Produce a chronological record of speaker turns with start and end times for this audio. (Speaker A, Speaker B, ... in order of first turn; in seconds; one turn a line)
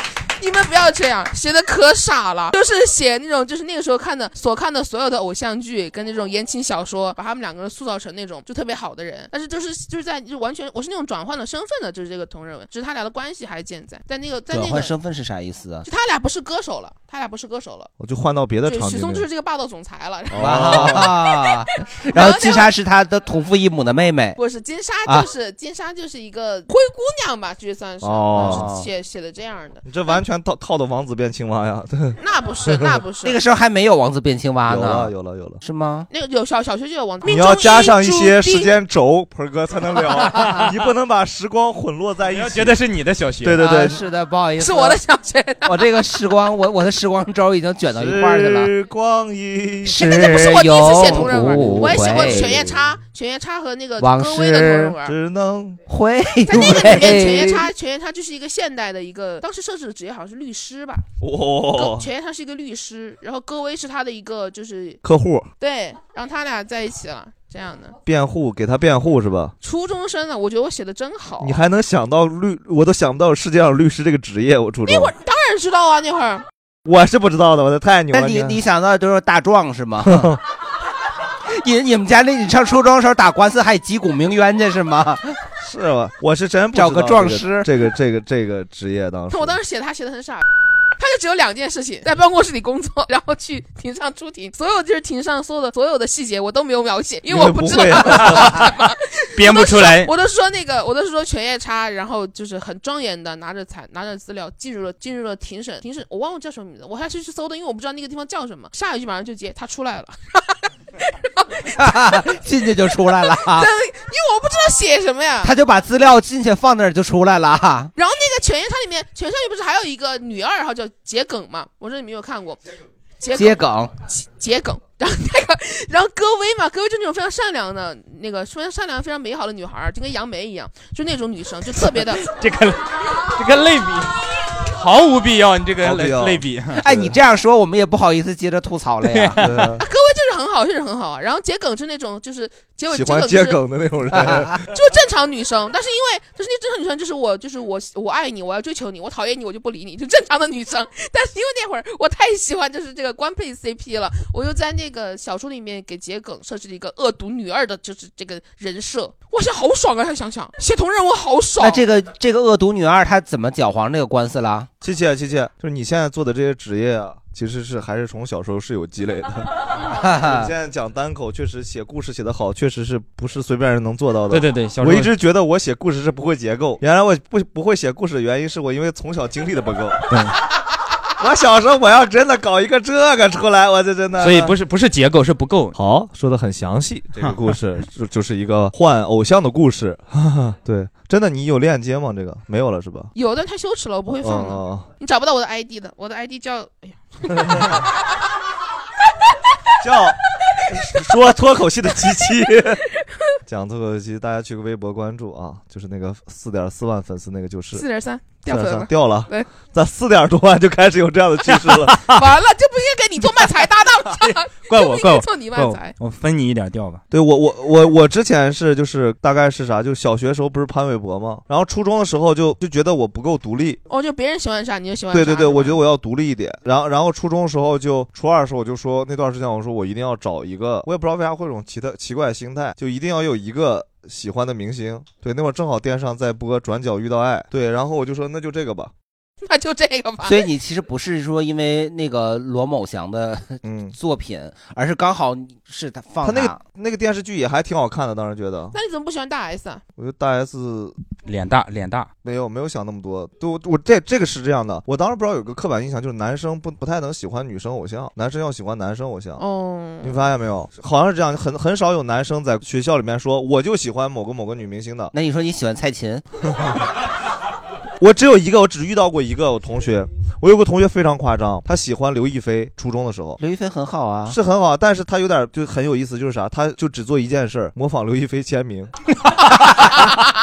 Speaker A: 0.4-14.9
Speaker B: 14.5-15.9
Speaker A: 15.8-17.9
Speaker C: 18.0-19.3
Speaker A: 18.6-22.7
Speaker C: 20.3-21.1
Speaker B: 20.3-24.4
Speaker A: 24.4-30.2
Speaker C: 28.0-28.7
Speaker B: 28.3-28.9
Speaker C: 29.8-32.9
Speaker A: 32.2-33.4
Speaker B: 33.2-36.1
Speaker C: 34.6-35.6
Speaker A: 36.1-38.7
Speaker C: 37.2-42.8
Speaker D: 42.3-43.6
Speaker C: 43.4-44.0
Speaker B: 43.5-45.0
Speaker A: 44.6-45.9
Speaker B: 45.6-48.7
Speaker C: 47.9-50.0
Speaker B: 49.9-52.8
Speaker A: 50.0-55.1
Speaker C: 51.2-52.5
Speaker B: 54.0-55.0
Speaker C: 55.0-55.8
Speaker B: 55.9-57.7
Speaker A: 56.5-61.0
Speaker C: 61.2-62.1
Speaker A: 61.7-65.0
Speaker C: 65.0-65.5
Speaker A: 65.6-68.0
Speaker C: 68.0-69.5
Speaker A: 69.6-71.6
Speaker C: 71.4-75.1
Speaker A: 74.8-76.5
Speaker C: 76.8-78.6
Speaker B: 78.1-80.4
Speaker C: 80.0-80.4
Speaker B: 81.5-85.4
Speaker C: 85.6-89.6
Speaker B: 86.7-87.7
Speaker A: 89.3-90.4
Speaker A: 91.0-112.2
Speaker C: 97.3-98.7
Speaker D: 98.1-98.7
Speaker D: 99.3-100.1
Speaker B: 111.8-113.7
Speaker A: 113.0-115.5
Speaker B: 115.4-117.9
Speaker A: 118.0-122.6
Speaker A: 123.2-132.2
Speaker B: 123.3-123.9
Speaker D: 131.8-136.8
Speaker C: 135.8-137.2
Speaker B: 136.8-139.4
Speaker D: 139.0-139.7
Speaker C: 139.4-139.8
Speaker A: 139.8-143.6
Speaker C: 142.9-144.7
Speaker B: 144.1-144.6
Speaker A: 144.7-161.8
Speaker B: 161.6-164.7
Speaker C: 164.8-180.3
Speaker B: 169.9-170.5
Speaker D: 174.3-175.1
Speaker C: 181.2-184.5
Speaker D: 184.2-185.8
Speaker C: 185.7-193.1
Speaker A: 193.1-198.0
Speaker C: 194.2-194.9
Speaker C: 199.8-202.8
Speaker C: 203.4-207.8
Speaker A: 207.7-209.5
Speaker C: 208.4-212.1
Speaker D: 211.5-212.2
Speaker A: 212.1-215.9
Speaker D: 214.2-217.0
Speaker C: 217.1-223.8
Speaker A: 223.9-225.8
Speaker C: 225.1-238.9
Speaker A: 239.4-240.5
Speaker B: 240.2-246.6
Speaker C: 243.6-243.9
Speaker C: 246.2-248.8
Speaker A: 248.7-249.8
Speaker C: 249.9-250.9
Speaker D: 251.2-252.1
Speaker C: 252.2-259.4
Speaker A: 259.4-260.2
Speaker C: 260.0-265.1
Speaker B: 265.1-266.2
Speaker C: 268.0-273.4
Speaker B: 273.4-274.4
Speaker C: 274.3-279.1